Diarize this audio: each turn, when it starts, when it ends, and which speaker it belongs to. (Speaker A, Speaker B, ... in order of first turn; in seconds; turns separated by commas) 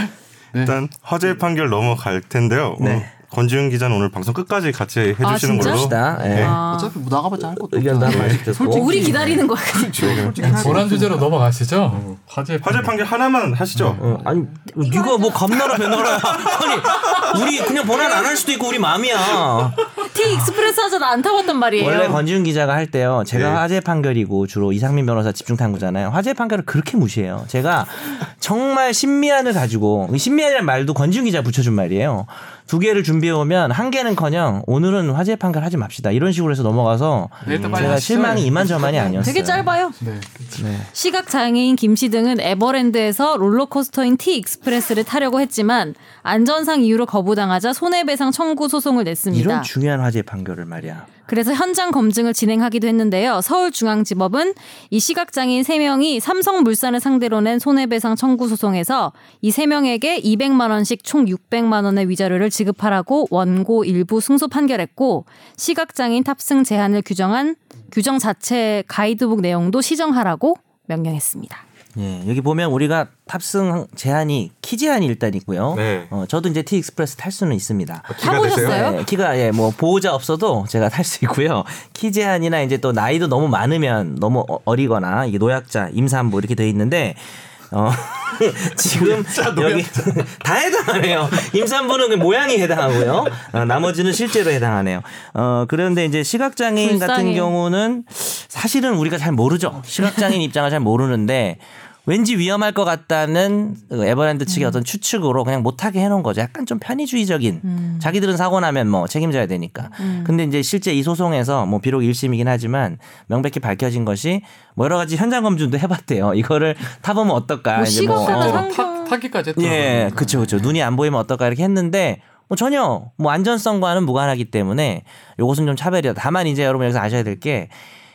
Speaker A: 0.6-6.6, Speaker B: 2.8-3.1, Speaker C: 5.2-7.0, Speaker B: 5.5-6.6, Speaker D: 6.1-11.3, Speaker B: 7.7-9.4, Speaker A: 8.0-8.4, Speaker C: 8.5-10.3, Speaker A: 9.9-10.8, Speaker E: 10.4-12.9, Speaker A: 12.6-14.0, Speaker E: 13.7-14.0, Speaker B: 14.0-19.8, Speaker D: 14.0-14.5, Speaker C: 14.8-15.5, Speaker C: 17.3-18.4, Speaker C: 20.0-22.2, Speaker B: 21.8-39.7, Speaker A: 23.3-23.6, Speaker E: 37.4-39.4, Speaker D: 37.4-38.6, Speaker C: 38.9-40.0, Speaker E: 40.0-40.3, Speaker B: 40.5-40.9, Speaker C: 40.9-49.7, Speaker B: 49.3-51.1, Speaker C: 51.3-71.6, Speaker B: 72.0-118.7, Speaker A: 75.7-76.1, Speaker A: 78.1-78.9, Speaker C: 78.2-79.0, Speaker A: 89.0-89.9, Speaker C: 96.8-97.5, Speaker C: 104.5-104.8, Speaker C: 107.6-108.1, Speaker C: 110.0-110.3, Speaker C: 117.8-119.2, Speaker E: 118.0-120.8, Speaker B: 119.5-127.7